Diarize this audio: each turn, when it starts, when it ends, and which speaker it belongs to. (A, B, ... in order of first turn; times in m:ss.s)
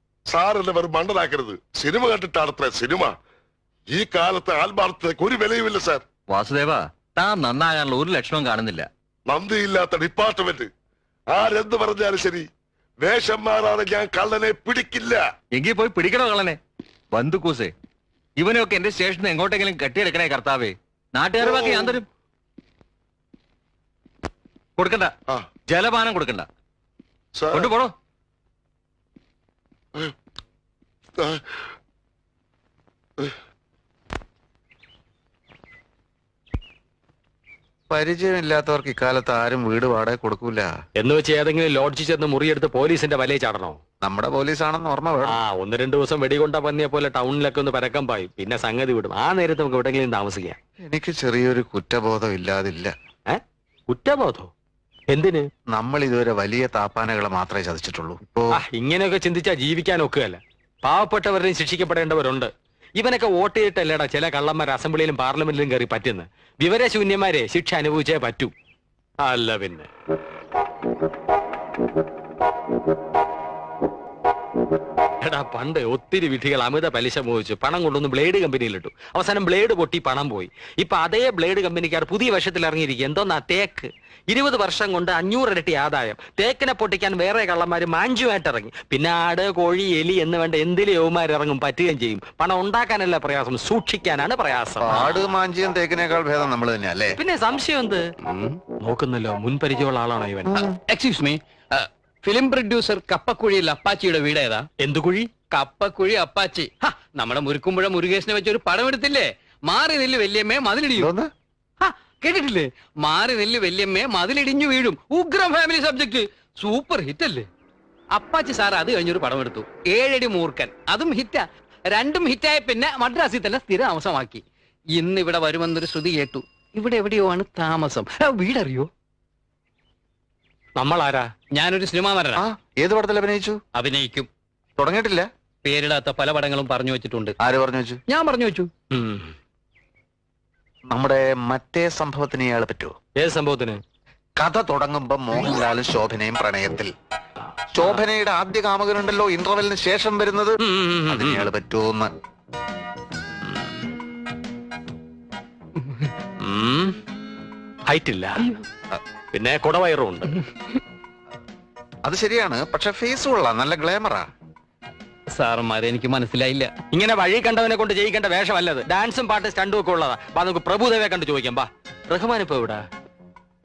0:00.3-0:03.2 A
0:03.9-0:06.0 A
0:06.3-0:08.9 B
0:09.3-0:10.7 A
0:11.3-0:12.5 A
0:13.0-0:15.2 A
0:15.5-0:16.6 B
0:17.1-0:17.7 B
0:18.4-0:22.0 B
0:21.4-0:21.9 A
0:24.8-0:25.1 B
0:25.7-0:26.5 B
0:27.4-0:27.7 A
0:27.5-0:27.9 B
0:37.9-0:40.7 C
0:41.0-0:43.8 D
0:44.0-0:45.4 C
0:45.2-0:50.6 D
0:50.8-0:52.9 C
0:53.3-0:54.5 D
0:55.1-0:55.5 D
0:55.7-0:58.6 C
0:58.5-1:08.5 D
1:09.2-1:09.9 D
1:15.2-1:35.2 D
1:34.8-1:37.2 C
1:37.2-1:38.1 D
1:38.8-1:40.7 D
1:40.9-1:44.7 E
1:44.8-1:45.3 D
1:45.5-1:51.1 E
1:51.0-1:51.3 C
1:51.8-1:57.5 E
1:58.1-2:04.4 E
2:04.9-2:08.9 E
2:10.8-2:11.3 D
2:11.5-2:12.4 E
2:12.4-2:13.6 C
2:13.7-2:14.3 E
2:14.8-2:15.3 C
2:15.6-2:17.3 E
2:17.4-2:18.0 C
2:18.1-2:18.7 E
2:18.9-2:19.3 D
2:20.9-2:22.9 C
2:23.2-2:23.8 D
2:24.4-2:26.9 C
2:27.7-2:32.1 C
2:30.6-2:31.5 D
2:33.4-2:33.8 D
2:36.4-2:36.9 D
2:37.9-2:38.5 D
2:39.3-2:40.4 D
2:42.0-2:44.3 C
2:45.3-2:46.7 E
2:46.9-2:52.8 D